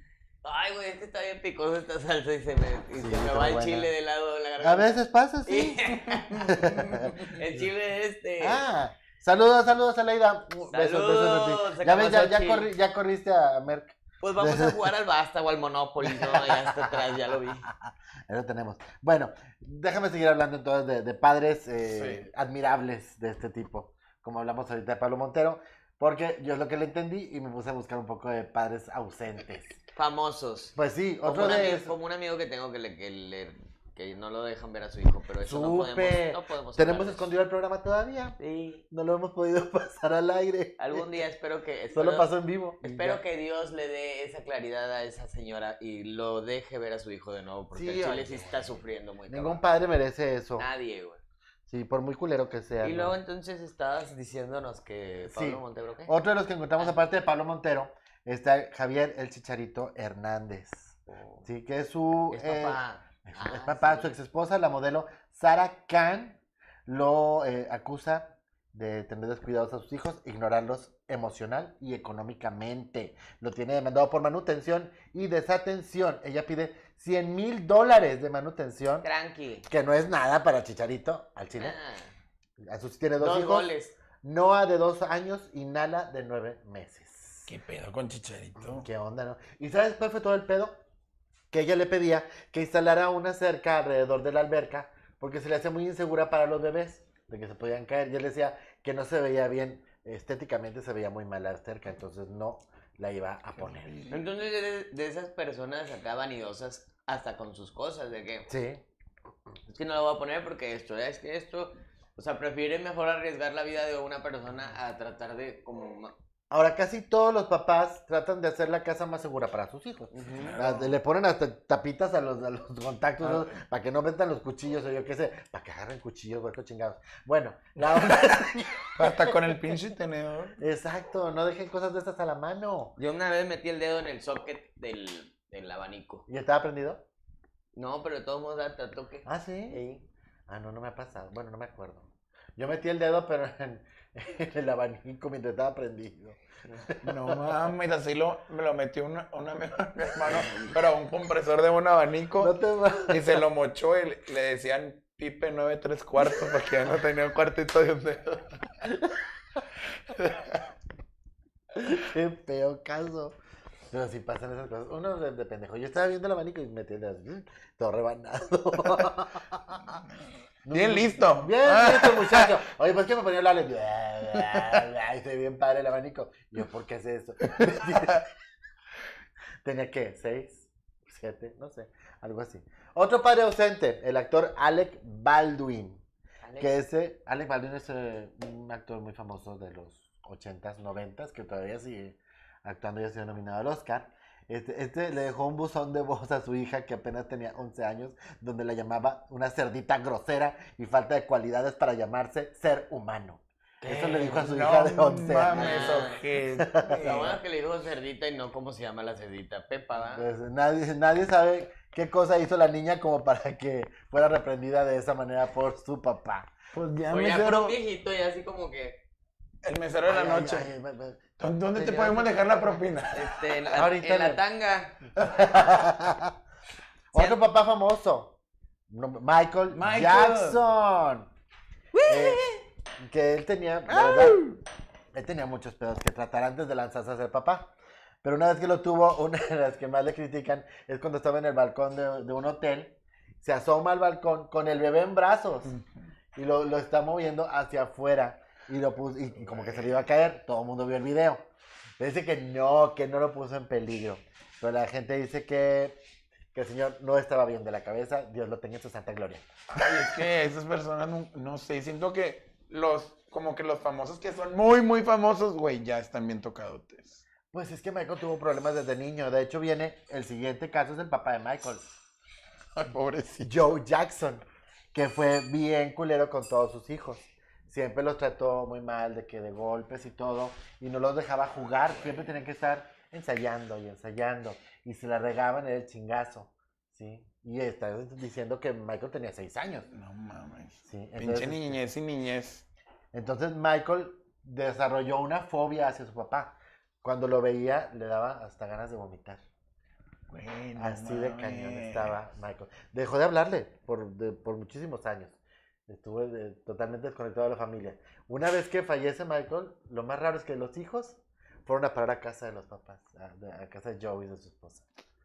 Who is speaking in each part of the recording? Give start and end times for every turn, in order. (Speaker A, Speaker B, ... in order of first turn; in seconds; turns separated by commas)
Speaker A: 0.4-8.6, Speaker B: 3.0-3.9, Speaker B: 4.6-7.6, Speaker B: 8.4-14.9, Speaker A: 10.7-12.7, Speaker A: 14.2-17.7, Speaker B: 16.0-17.1, Speaker B: 17.7-29.8, Speaker C: 21.9-22.2, Speaker A: 29.9-37.3, Speaker B: 30.8-31.9, Speaker B: 35.4-38.4, Speaker A: 38.4-38.8, Speaker B: 38.9-41.2, Speaker A: 40.8-42.3, Speaker B: 41.9-43.2, Speaker A: 42.8-49.6, Speaker B: 47.7-50.7, Speaker A: 50.6-51.2, Speaker B: 51.7-53.1, Speaker A: 52.8-56.1, Speaker B: 55.3-79.1, Speaker A: 61.1-61.5, Speaker A: 62.3-64.1, Speaker A: 79.0-79.7, Speaker B: 79.7-81.8, Speaker A: 81.6-82.1, Speaker B: 82.6-83.7, Speaker A: 83.2-84.0, Speaker B: 84.2-87.5, Speaker C: 87.5-88.9, Speaker B: 88.6-90.8, Speaker B: 91.5-104.0, Speaker C: 103.6-104.2, Speaker A: 104.1-108.5, Speaker B: 108.5-108.8, Speaker A: 109.7-116.1, Speaker B: 116.5-129.8, Speaker A: 120.1-120.6, Speaker C: 120.3-121.0, Speaker C: 123.2-123.6, Speaker C: 128.0-128.3, Speaker C: 128.9-130.6, Speaker B: 130.6-132.9, Speaker A: 133.0-136.3, Speaker B: 136.3-137.0, Speaker A: 137.8-140.0, Speaker B: 139.3-147.5, Speaker C: 147.0-152.5, Speaker B: 152.4-153.4, Speaker C: 153.1-158.6, Speaker C: 160.2-160.4, Speaker B: 161.7-163.4, Speaker B: 163.9-170.0, Speaker B: 170.6-178.3, Speaker C: 170.7-172.5, Speaker C: 174.5-174.8, Speaker B: 179.6-186.0, Speaker A: 186.4-186.8, Speaker B: 186.6-207.4, Speaker A: 203.8-204.4, Speaker C: 204.2-207.4, Speaker A: 205.5-206.2, Speaker A: 207.0-210.3, Speaker B: 210.1-216.5, Speaker C: 216.7-217.8, Speaker A: 217.1-219.0, Speaker C: 219.6-220.7, Speaker B: 220.1-222.6, Speaker C: 221.4-223.3, Speaker A: 223.1-225.0, Speaker B: 223.7-224.4, Speaker B: 225.2-226.3, Speaker B: 227.1-228.4, Speaker B: 228.9-231.3, Speaker C: 229.7-230.6, Speaker B: 232.1-234.5, Speaker A: 232.3-232.6, Speaker B: 235.1-237.7, Speaker B: 238.2-245.7, Speaker C: 245.7-246.1, Speaker B: 246.3-251.4, Speaker C: 249.4-250.0, Speaker B: 252.0-256.0, Speaker B: 256.5-259.5, Speaker C: 259.7-267.2, Speaker B: 267.5-271.9, Speaker C: 272.8-273.5, Speaker B: 273.4-289.9, Speaker C: 289.9-292.7, Speaker B: 290.9-291.8, Speaker B: 293.1-299.4, Speaker C: 300.3-302.2, Speaker B: 300.8-314.9